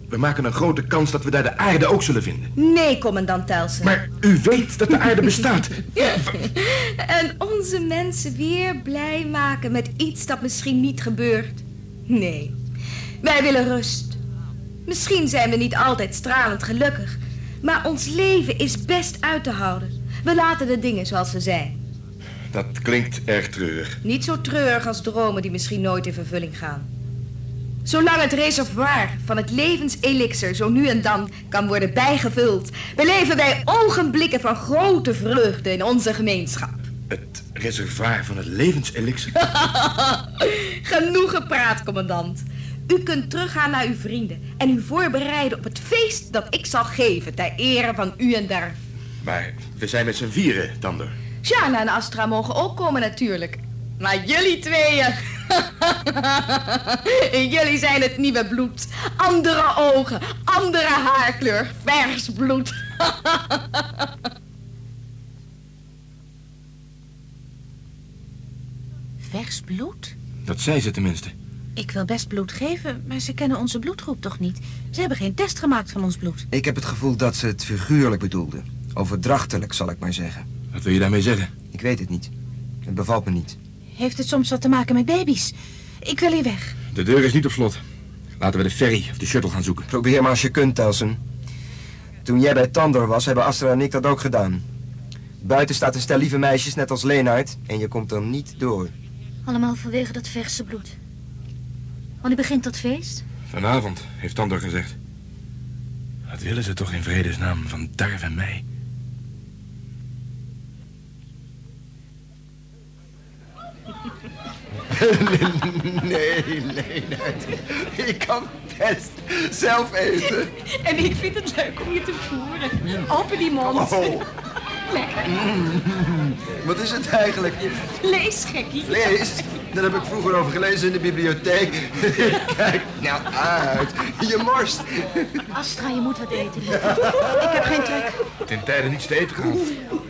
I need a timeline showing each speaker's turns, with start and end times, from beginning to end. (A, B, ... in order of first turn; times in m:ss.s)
0:00.1-0:02.5 A
0:02.6-0:04.0 B
0:03.8-0:06.4 A
0:06.0-0:12.6 B
0:13.2-0:14.2 B
0:14.9-0:21.8 B
0:22.5-0:24.0 A
0:24.0-0:26.9 B
0:27.8-0:36.9 B
0:37.1-0:39.3 A
0:39.4-0:48.8 B
0:49.2-0:51.2 A
0:51.4-1:04.1 B
1:09.2-1:10.1 C
1:10.5-1:11.3 A
1:11.8-1:16.4 C
1:16.5-1:20.4 D
1:20.7-1:21.5 A
1:21.7-1:22.3 D
1:22.9-1:23.6 D
1:24.0-1:26.8 C
1:26.9-1:27.8 A
1:28.4-1:29.9 A
1:29.9-1:31.2 D
1:32.2-1:34.6 D
1:35.4-1:38.9 D
1:39.5-1:41.0 E
1:42.2-1:43.2 E
1:43.5-1:45.0 A
1:46.3-1:48.6 A
1:54.9-2:00.6 D
2:00.7-2:04.2 C
2:03.7-2:04.2 D
2:05.2-2:07.9 D
2:08.0-2:09.0 C
2:08.8-2:15.4 D
2:15.6-2:16.8 E
2:16.9-2:18.2 C
2:18.5-2:19.7 A